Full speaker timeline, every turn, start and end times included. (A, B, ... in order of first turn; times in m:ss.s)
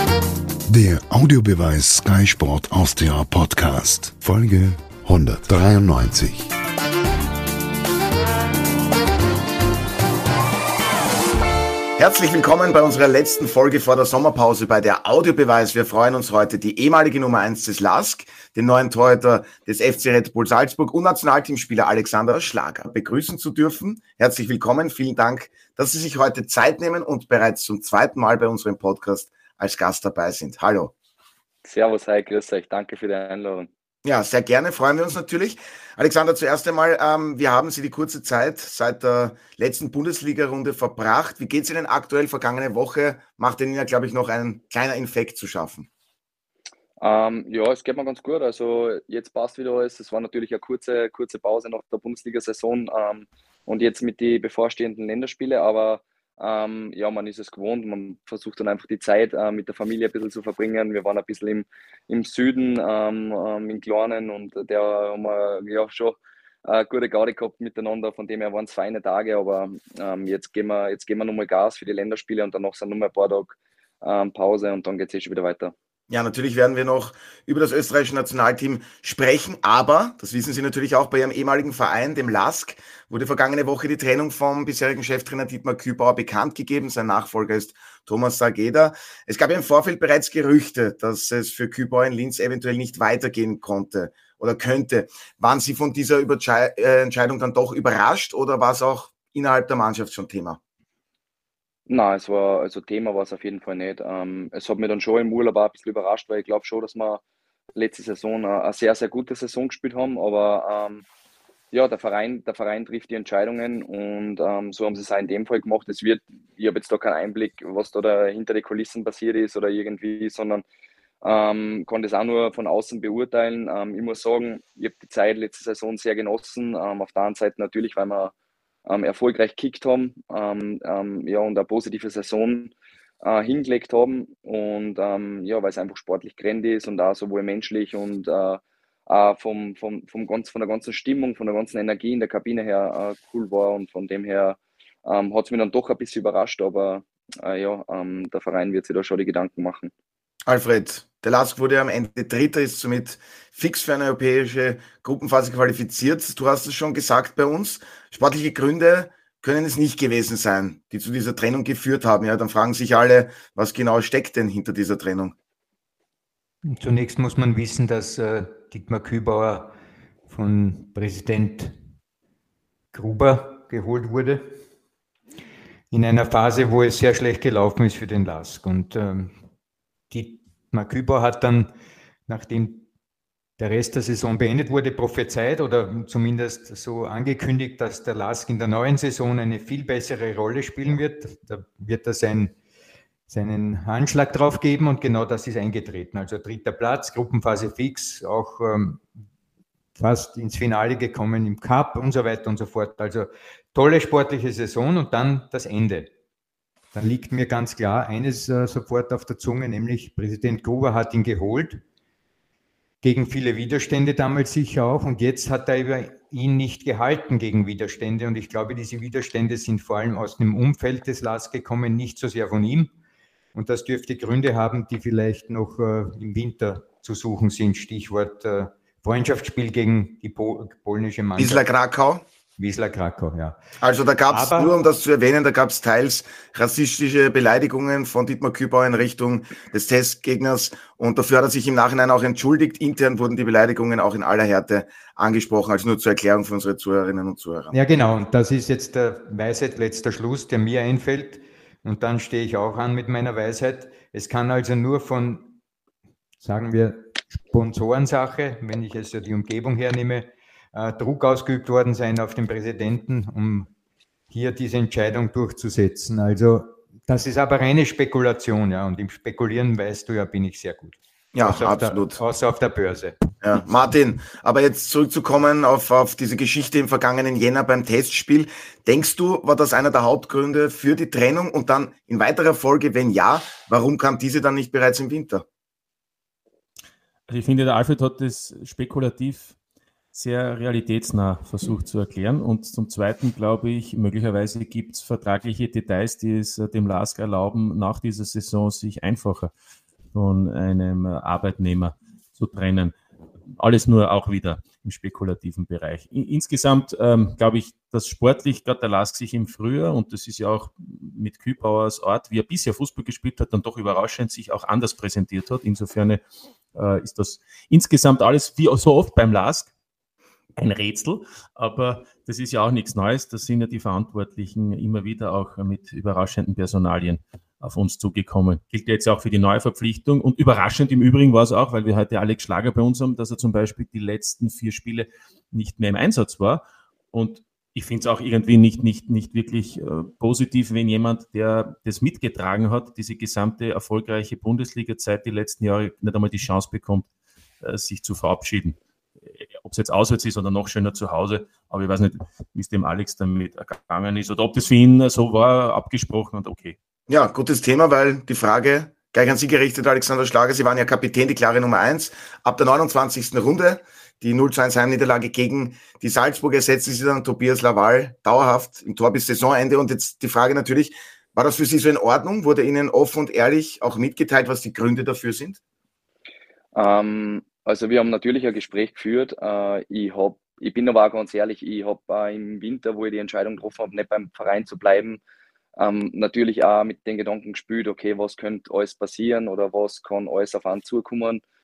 0:00.7-0:06.5 A
0:12.0-0:30.9 B
0:31.6-0:33.7 C
0:34.0-0:45.9 B
0:47.0-1:15.7 C
1:16.1-1:40.6 B
1:41.9-1:47.2 C
1:47.8-1:51.0 C
1:51.7-2:00.6 C
2:01.2-2:08.3 C
2:08.9-2:29.9 C
2:30.5-2:45.3 B
2:46.6-2:49.7 D
2:50.3-2:51.8 D
2:52.9-2:54.6 D
2:55.9-2:59.3 D
3:00.1-3:01.7 D
3:02.3-3:02.9 D
3:03.6-3:12.5 D
3:13.3-3:19.0 D
3:20.0-3:26.1 D
3:26.9-3:31.8 D
3:33.0-3:42.9 D
3:43.5-3:51.6 D
3:51.4-3:52.2 B
3:52.6-3:53.6 D
3:53.8-4:07.8 B
3:54.3-3:54.7 D
4:07.7-4:15.5 D
4:16.4-4:23.7 D
4:24.3-4:33.2 D
4:31.3-4:32.2 B
4:33.4-4:45.4 B
4:47.3-4:49.6 E
4:50.1-4:59.5 E
5:00.1-5:02.9 E
5:03.6-5:16.2 E
5:16.8-5:19.7 E
5:20.6-5:47.1 E
5:47.6-5:48.8 E
5:49.4-5:56.8 E
5:57.1-6:15.6 B
6:16.8-6:25.2 C
6:25.8-6:31.4 C